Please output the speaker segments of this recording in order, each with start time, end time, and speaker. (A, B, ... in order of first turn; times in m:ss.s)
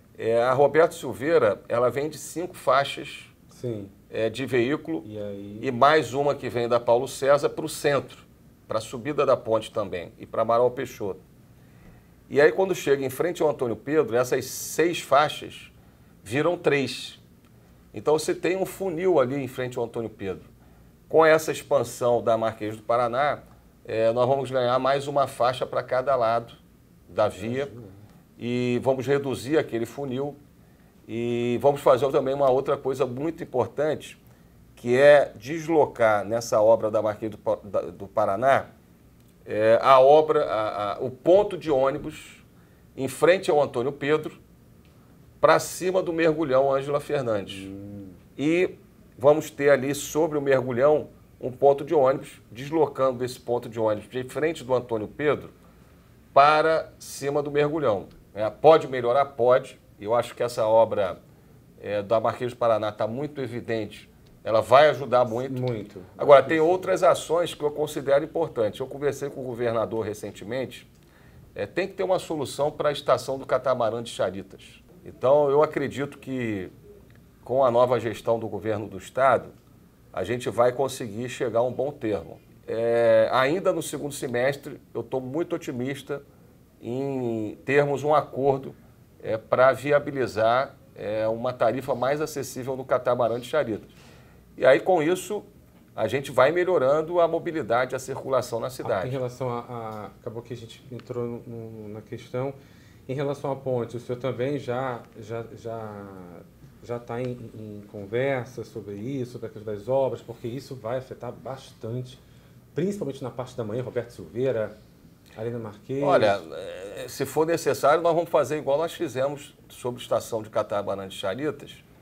0:00.2-0:03.3 A
0:03.5-0:03.9 B
0:04.1-0:05.1 A
0:05.0-0:05.7 B
0:05.6-0:11.2 A
0:12.3-0:17.2 A
0:17.9-0:20.5 A
0:21.1-0:27.7 A
0:27.2-0:28.0 B
0:28.4-0:30.4 A
0:31.1-0:34.2 A
0:34.8-0:38.7 A
0:39.5-0:42.4 A
0:43.0-0:44.4 A
0:45.4-0:47.7 A
0:47.5-0:48.2 B
0:48.4-0:55.5 A
0:56.3-1:01.2 A
1:01.8-1:05.6 A
1:05.3-1:06.9 B
1:06.2-1:10.9 A
1:11.5-1:16.7 A
1:17.4-1:19.5 A
1:20.1-1:26.2 A
1:26.8-1:33.9 A
1:34.6-1:39.2 A
1:38.8-1:42.6 B
1:43.1-1:52.2 B
1:52.7-1:54.7 B
1:55.4-1:56.4 B
1:56.0-2:01.8 A